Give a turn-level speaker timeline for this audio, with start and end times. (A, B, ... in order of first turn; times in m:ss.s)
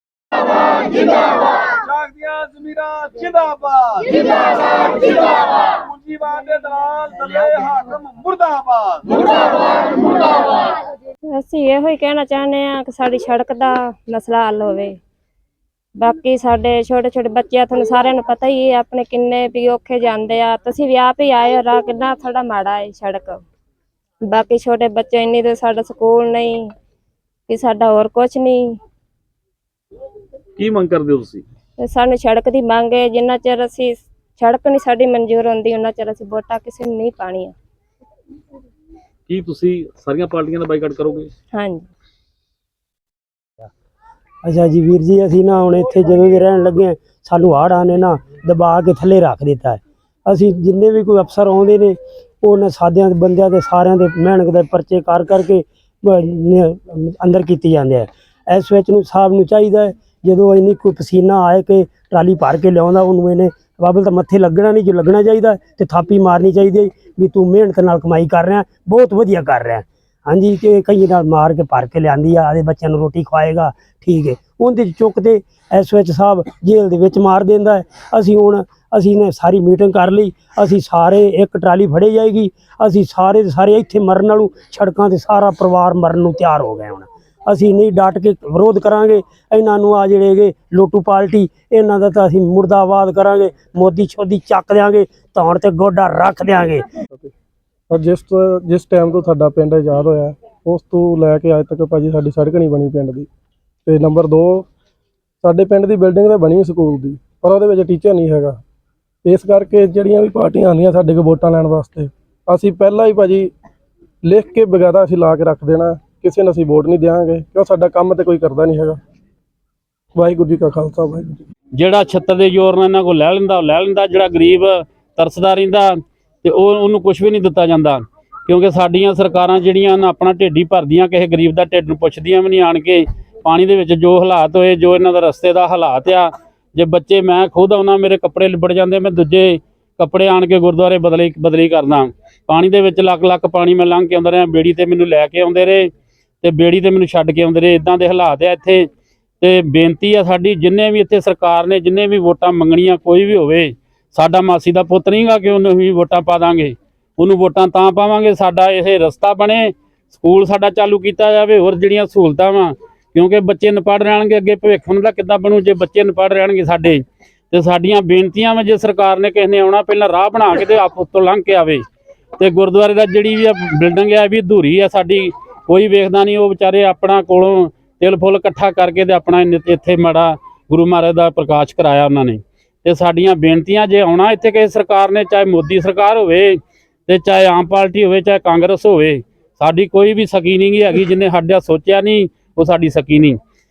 0:01.8-0:09.2 A
0:11.4-0:14.9 B
0:16.0-0:23.3 B
0:24.3-0:26.5 B
0:27.5-0:28.6 B
0:30.6-0:31.4 C
0:31.8-0:37.5 B
0:39.3-0:41.3 C
0:44.4-1:36.8 D
1:37.9-1:43.3 E
1:43.8-1:44.7 E
1:45.4-1:48.6 E
1:49.2-1:53.5 E
1:54.2-1:59.0 E
2:00.1-2:01.4 E
2:01.7-2:25.9 F
2:26.4-2:28.9 F
2:29.4-2:51.8 F
2:52.4-3:13.4 F